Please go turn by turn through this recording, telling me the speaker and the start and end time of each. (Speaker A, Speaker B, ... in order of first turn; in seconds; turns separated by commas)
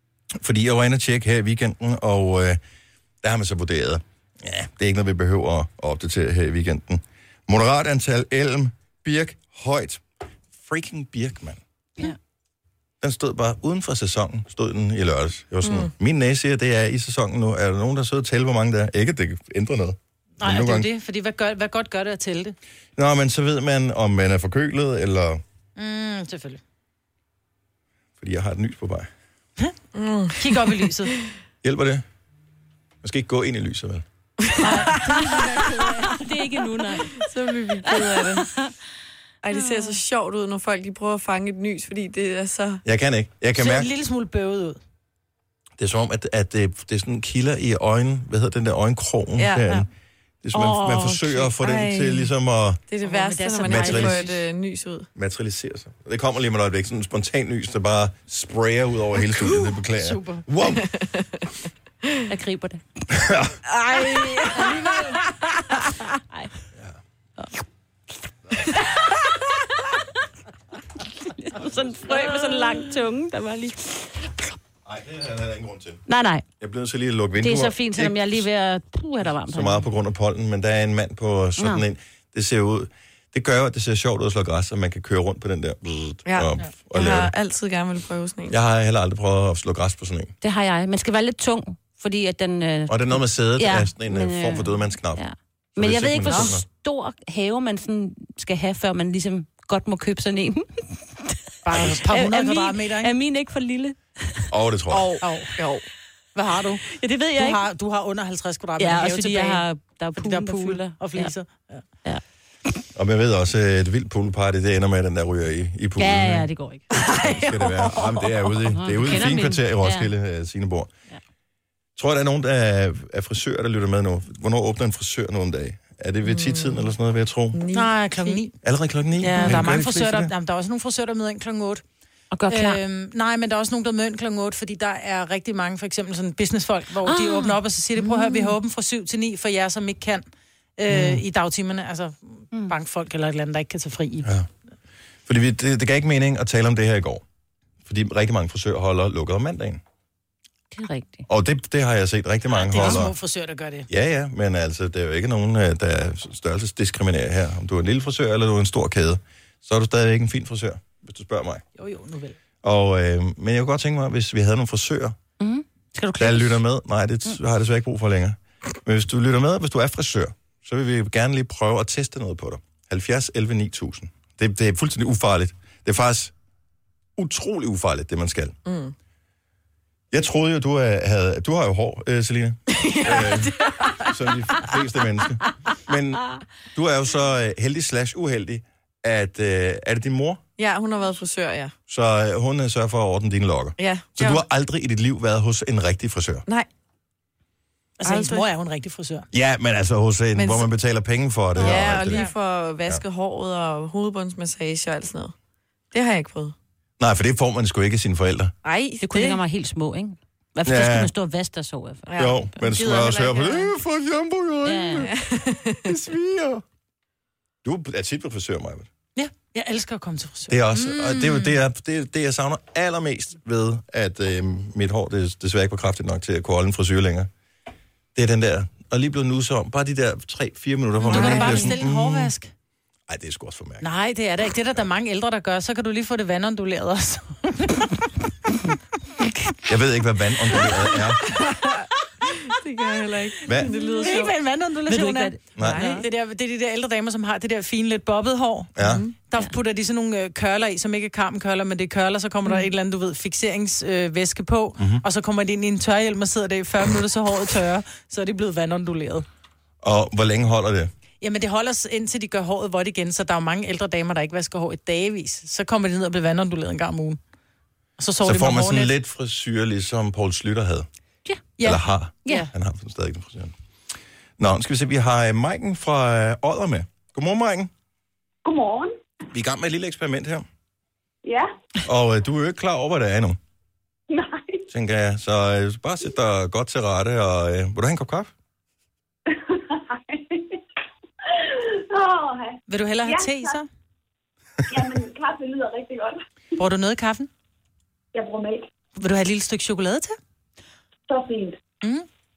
Speaker A: 0.4-2.6, Speaker A: 3.2-10.0, Speaker A: 10.6-11.6, Speaker A: 13.0-20.9, Speaker B: 15.6-15.9, Speaker C: 20.4-22.6, Speaker A: 22.9-25.4, Speaker C: 25.8-26.6, Speaker A: 28.2-29.1, Speaker B: 29.9-31.2, Speaker C: 30.4-31.1, Speaker A: 31.6-32.0, Speaker A: 33.0-34.0, Speaker B: 34.4-34.9, Speaker C: 34.6-36.9, Speaker D: 36.1-37.1, Speaker B: 37.1-38.5, Speaker D: 37.8-38.7, Speaker B: 39.4-42.8, Speaker D: 39.5-39.8, Speaker A: 42.8-43.9, Speaker C: 43.5-44.8, Speaker A: 45.8-49.9, Speaker B: 49.4-49.8, Speaker A: 50.4-52.8, Speaker C: 50.6-51.4, Speaker B: 51.6-52.3, Speaker B: 52.9-55.1, Speaker C: 53.0-54.4, Speaker A: 53.6-54.2, Speaker A: 55.1-60.9, Speaker C: 59.9-60.4, Speaker B: 60.6-61.5, Speaker D: 62.3-62.8, Speaker A: 63.1-63.5, Speaker B: 63.9-64.8, Speaker D: 63.9-65.2, Speaker D: 71.4-74.3, Speaker A: 74.8-76.0, Speaker D: 76.1-76.4, Speaker A: 76.6-78.5, Speaker D: 77.4-79.9, Speaker A: 79.5-87.3, Speaker D: 81.6-81.8, Speaker B: 86.2-88.5, Speaker A: 88.5-90.3, Speaker D: 90.4-101.3, Speaker A: 92.9-95.2, Speaker A: 95.8-96.6, Speaker C: 101.6-103.1, Speaker A: 101.7-102.0, Speaker D: 102.1-104.5, Speaker A: 104.5-105.1, Speaker B: 104.9-105.8, Speaker C: 105.2-105.5, Speaker C: 106.3-106.8, Speaker D: 106.9-107.6, Speaker C: 107.3-109.6, Speaker D: 108.8-111.3, Speaker C: 110.2-111.8, Speaker A: 112.9-116.5, Speaker D: 116.0-116.8, Speaker C: 116.9-118.3, Speaker A: 117.2-120.9, Speaker D: 118.7-120.1, Speaker A: 122.0-127.6, Speaker B: 126.2-126.9, Speaker B: 127.5-128.4, Speaker C: 127.7-128.5, Speaker A: 128.6-130.3, Speaker C: 129.2-131.8, Speaker D: 129.3-129.6, Speaker D: 132.3-132.8, Speaker C: 132.5-140.2, Speaker D: 137.0-138.5, Speaker C: 140.8-144.3, Speaker D: 140.9-141.2, Speaker A: 145.2-147.2, Speaker A: 147.8-149.8, Speaker D: 150.7-151.2, Speaker A: 151.3-153.1, Speaker C: 152.5-153.9, Speaker A: 153.9-161.6, Speaker C: 161.8-162.4, Speaker A: 162.6-165.2, Speaker D: 165.4-166.6, Speaker A: 166.2-176.3, Speaker A: 177.2-178.6, Speaker B: 178.6-178.9, Speaker A: 180.1-190.4, Speaker B: 182.7-184.3, Speaker B: 190.6-191.7, Speaker A: 191.9-196.4, Speaker B: 193.8-194.4, Speaker C: 198.0-199.3, Speaker B: 198.0-198.5, Speaker A: 199.3-202.3, Speaker B: 200.3-200.7, Speaker B: 201.6-205.3, Speaker C: 201.7-202.3, Speaker B: 205.9-206.6, Speaker A: 207.0-208.5, Speaker B: 208.6-209.4, Speaker D: 209.0-212.9, Speaker A: 210.6-211.1, Speaker B: 212.1-213.7, Speaker A: 212.2-215.1, Speaker D: 214.6-215.1, Speaker B: 215.0-215.9, Speaker A: 215.8-216.6, Speaker A: 217.6-218.9, Speaker C: 219.2-221.5, Speaker A: 220.5-227.3, Speaker A: 228.1-232.3, Speaker C: 231.0-232.5, Speaker B: 231.1-231.7, Speaker A: 233.1-233.9, Speaker C: 233.8-237.9, Speaker A: 239.7-241.2, Speaker B: 242.3-244.4, Speaker A: 243.4-243.7, Speaker C: 243.7-248.8, Speaker D: 243.9-244.2, Speaker D: 244.8-246.0, Speaker A: 245.6-245.8, Speaker B: 245.6-246.0, Speaker A: 248.8-249.0, Speaker B: 248.8-249.1, Speaker C: 249.3-259.2, Speaker A: 259.8-260.9, Speaker C: 261.2-267.2, Speaker C: 268.0-268.9, Speaker A: 268.2-270.9, Speaker C: 271.6-272.5, Speaker A: 271.6-273.5, Speaker A: 274.4-277.7, Speaker E: 278.4-278.9, Speaker A: 279.3-280.4, Speaker E: 281.2-281.5, Speaker A: 281.8-283.4, Speaker E: 284.1-284.6, Speaker A: 284.7-288.3, Speaker E: 289.3-290.6, Speaker E: 291.3-293.6, Speaker C: 292.7-293.7, Speaker E: 294.7-296.2, Speaker C: 296.6-297.3, Speaker E: 298.1-298.7, Speaker C: 299.0-300.2, Speaker E: 301.1-301.6